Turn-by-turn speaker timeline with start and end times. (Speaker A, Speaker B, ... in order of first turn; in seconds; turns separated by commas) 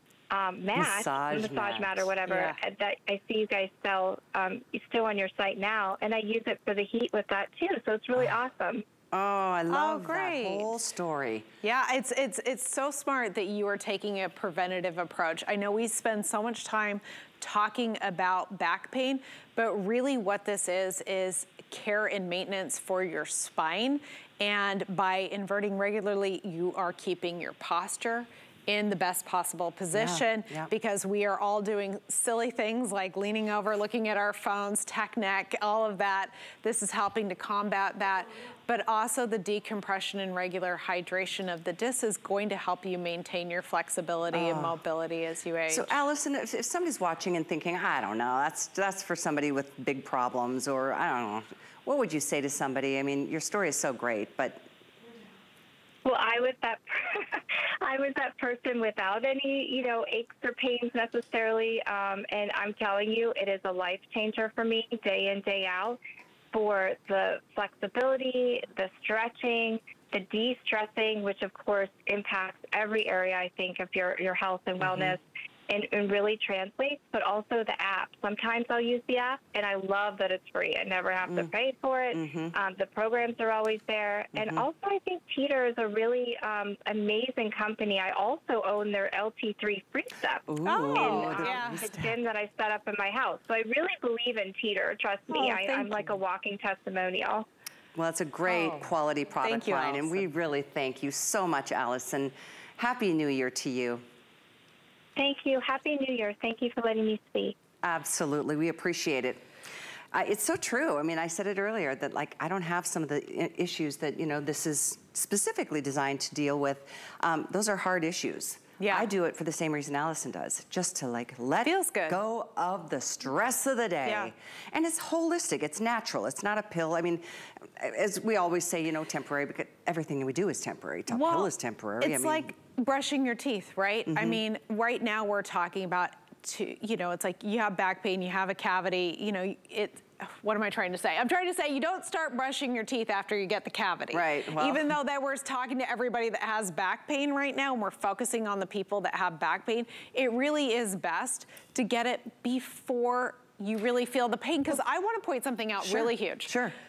Speaker A: 0.3-8.8, Speaker B: 0.8-2.1, Speaker C: 2.3-2.6, Speaker B: 9.1-11.5, Speaker C: 9.7-10.7, Speaker C: 11.6-45.9, Speaker B: 29.9-30.7, Speaker B: 44.3-44.8, Speaker B: 45.7-54.6, Speaker A: 56.0-66.0, Speaker A: 66.5-90.5, Speaker B: 74.8-75.2, Speaker B: 82.1-82.5, Speaker B: 84.3-84.7, Speaker B: 90.5-92.2, Speaker C: 90.6-91.8, Speaker A: 91.0-97.5, Speaker C: 95.3-96.2, Speaker B: 98.0-104.0, Speaker C: 98.5-98.9, Speaker C: 99.4-100.3, Speaker A: 105.2-107.5, Speaker B: 107.8-109.4, Speaker B: 110.1-132.5, Speaker C: 118.8-119.1, Speaker C: 121.7-122.2, Speaker C: 124.0-124.3, Speaker C: 131.1-131.5, Speaker C: 132.0-156.6, Speaker B: 134.1-134.4, Speaker B: 144.1-144.9, Speaker B: 155.8-156.7